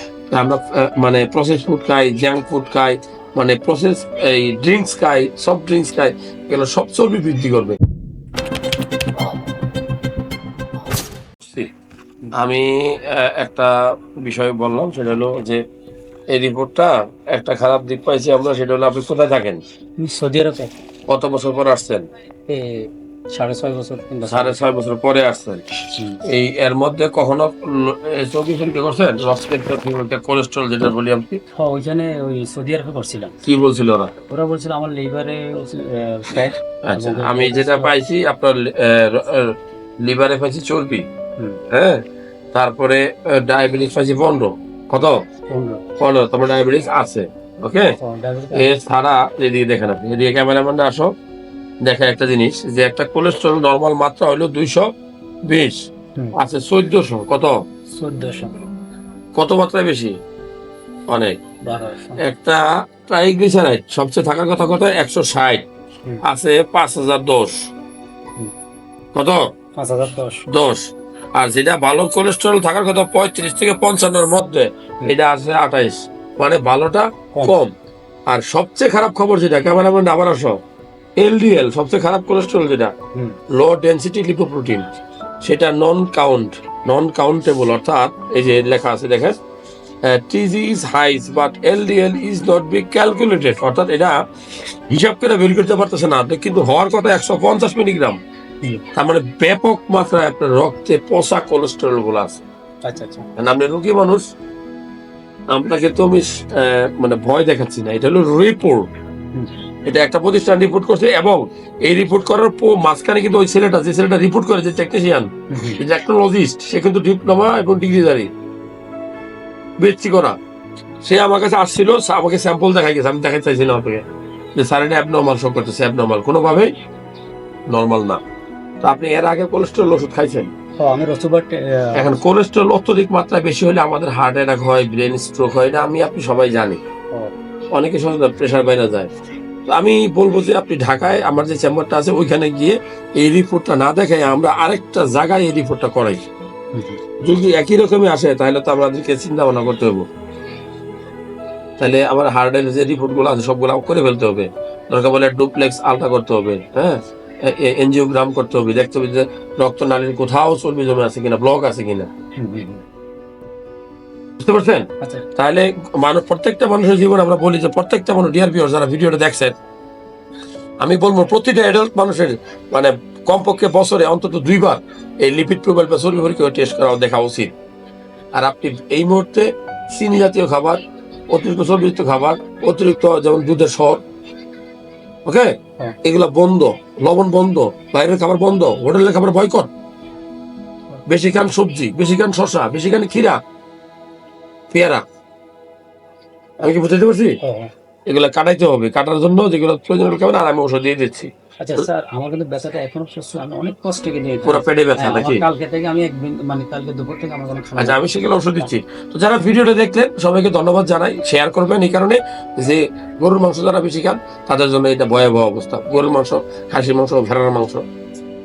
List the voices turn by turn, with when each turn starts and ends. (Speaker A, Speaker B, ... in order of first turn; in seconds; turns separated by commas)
Speaker A: 0.3-7.8, Speaker A: 11.4-11.7, Speaker A: 12.3-15.6, Speaker A: 16.3-19.6, Speaker B: 20.0-20.7, Speaker A: 21.1-22.1, Speaker B: 22.5-24.6, Speaker A: 24.3-25.6, Speaker A: 26.3-31.4, Speaker B: 31.5-33.4, Speaker A: 33.4-34.1, Speaker B: 34.3-38.0, Speaker A: 36.8-41.1, Speaker A: 41.7-42.0, Speaker A: 42.5-45.2, Speaker B: 45.5-45.8, Speaker A: 46.0-48.0, Speaker B: 48.0-48.8, Speaker A: 48.5-51.1, Speaker A: 51.8-54.9, Speaker A: 55.5-57.6, Speaker B: 57.9-58.6, Speaker A: 59.4-60.1, Speaker A: 61.1-61.4, Speaker B: 61.6-62.2, Speaker A: 62.2-65.7, Speaker A: 66.2-67.7, Speaker A: 69.2-69.4, Speaker B: 69.8-70.5, Speaker A: 70.5-77.7, Speaker A: 78.3-80.6, Speaker A: 81.2-82.9, Speaker A: 83.6-84.8, Speaker A: 85.4-89.4, Speaker A: 90.0-94.2, Speaker A: 94.9-98.2, Speaker A: 99.0-102.4, Speaker B: 102.8-103.2, Speaker A: 103.4-104.2, Speaker A: 105.5-108.9, Speaker A: 109.9-118.3, Speaker B: 115.5-115.8, Speaker A: 119.8-120.4, Speaker A: 121.0-124.0, Speaker A: 124.6-126.7, Speaker A: 127.7-128.2, Speaker A: 128.8-130.5, Speaker B: 130.8-132.1, Speaker A: 131.9-136.8, Speaker A: 137.8-139.1, Speaker A: 139.7-146.2, Speaker B: 146.7-147.0, Speaker A: 147.2-150.1, Speaker A: 151.8-162.1, Speaker B: 162.4-162.8, Speaker A: 164.4-169.6, Speaker A: 170.8-177.5, Speaker A: 178.3-184.0, Speaker A: 185.3-189.7, Speaker A: 191.1-193.4, Speaker A: 194.7-195.0, Speaker A: 196.6-197.4, Speaker B: 197.4-197.7, Speaker A: 198.1-201.3, Speaker B: 201.6-208.7, Speaker A: 204.4-205.4, Speaker A: 207.8-217.8